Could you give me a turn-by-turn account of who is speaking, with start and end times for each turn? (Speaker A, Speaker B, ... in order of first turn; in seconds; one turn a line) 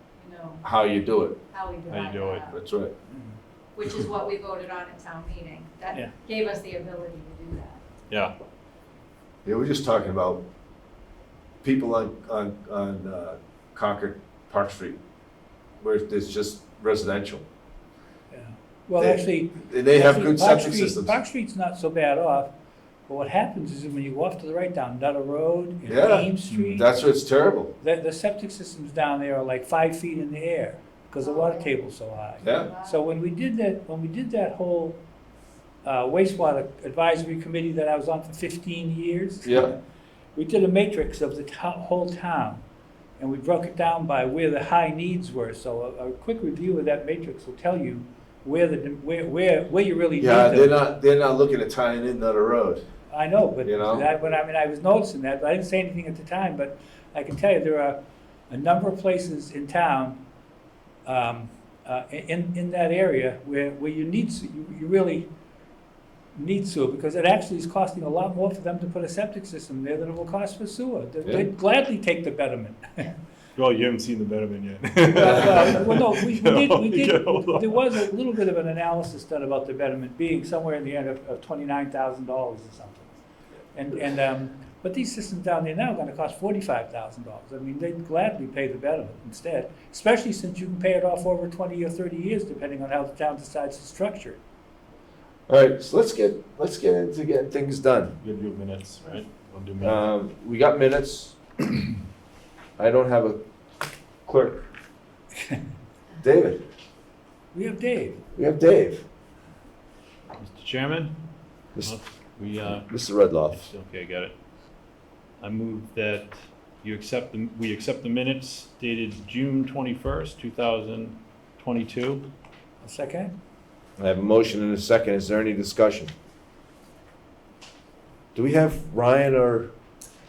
Speaker A: 0.2-0.6
Speaker B: 0.6-1.4
Speaker A: 1.5-2.6
Speaker C: 1.9-2.5
Speaker B: 2.5-2.9
Speaker D: 3.1-3.4
Speaker A: 3.8-7.8
Speaker B: 9.4-10.4
Speaker B: 11.6-15.0
Speaker B: 15.8-17.4
Speaker D: 18.3-22.5
Speaker B: 19.0-21.2
Speaker D: 23.1-26.9
Speaker B: 25.9-27.7
Speaker D: 27.8-35.0
Speaker A: 31.2-31.8
Speaker B: 32.4-32.7
Speaker A: 32.4-33.0
Speaker D: 35.8-39.8
Speaker B: 39.4-39.7
Speaker D: 40.4-42.6
Speaker D: 43.2-50.8
Speaker B: 50.2-52.8
Speaker D: 53.1-60.2
Speaker B: 53.6-54.1
Speaker D: 61.1-65.3
Speaker D: 66.3-73.1
Speaker C: 73.6-78.1
Speaker D: 75.1-83.2
Speaker B: 75.2-75.7
Speaker D: 83.7-94.4
Speaker B: 95.5-98.2
Speaker C: 98.2-100.0
Speaker B: 99.8-101.4
Speaker B: 102.8-103.4
Speaker B: 104.2-104.7
Speaker B: 106.2-106.6
Speaker D: 107.5-108.2
Speaker B: 108.3-109.0
Speaker C: 110.4-111.2
Speaker C: 111.8-112.9
Speaker B: 112.9-113.7
Speaker C: 113.5-114.3
Speaker C: 115.4-122.3
Speaker D: 122.8-123.3
Speaker B: 124.0-126.1
Speaker B: 128.3-129.7